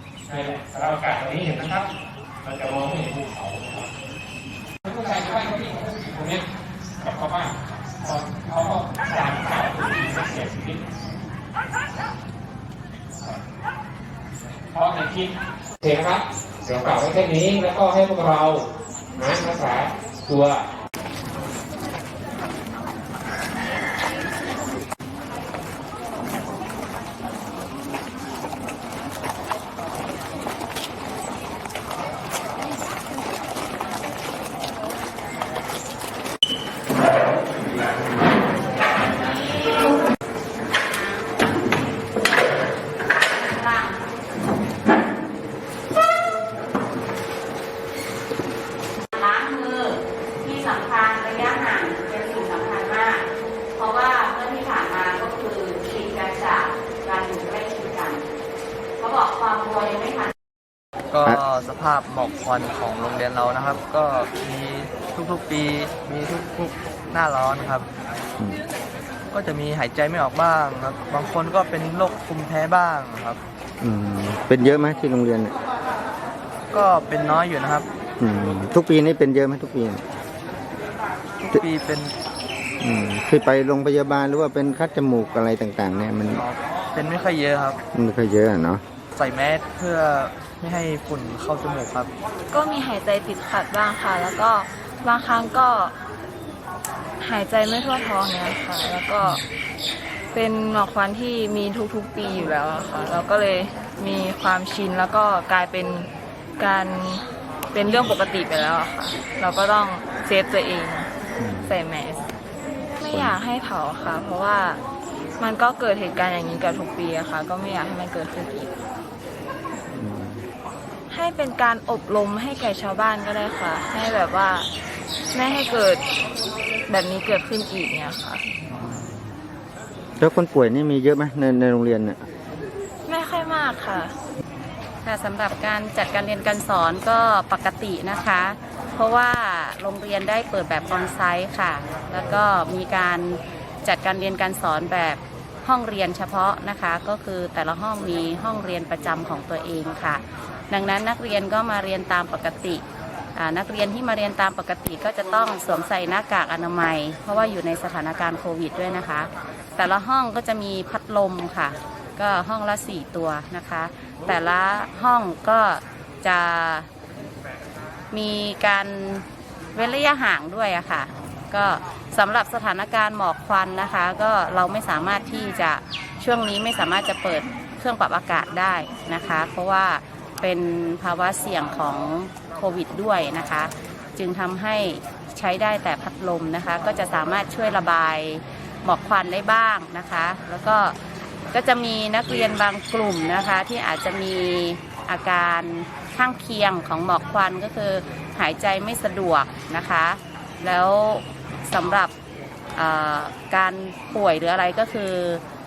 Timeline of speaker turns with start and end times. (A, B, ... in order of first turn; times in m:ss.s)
0:00.3-0:01.9 A
0:02.4-0:03.9 A
0:04.8-0:06.5 A
0:07.0-0:10.8 A
0:14.7-0:18.7 A
0:19.2-0:20.6 A
0:38.8-0:40.0 B
0:40.8-0:41.5 B
0:43.3-0:44.0 B
0:49.1-0:58.2 B
0:59.0-1:00.3 B
1:01.1-1:07.9 C
1:09.3-1:13.4 C
1:13.8-1:15.5 D
1:16.7-1:17.9 C
1:18.2-1:20.0 D
1:21.4-1:22.1 C
1:22.8-1:26.4 D
1:26.4-1:27.8 C
1:27.9-1:28.8 D
1:29.1-1:32.1 C
1:32.5-1:36.0 E
1:37.2-1:39.4 E
1:40.3-1:51.1 E
1:51.4-1:51.8 D
1:51.6-1:52.2 E
1:53.0-1:54.8 E
1:53.1-1:53.4 D
1:55.4-1:58.7 E
2:00.0-2:00.4 D
2:01.1-2:04.7 E
2:05.3-2:06.0 E
2:06.9-2:08.4 E
2:08.8-2:09.1 D
2:10.2-2:12.2 D
2:13.1-2:14.1 E
2:15.0-2:32.8 B
2:33.4-2:46.9 B
2:48.1-3:11.0 B
3:11.5-3:22.1 B
3:22.8-3:25.4 B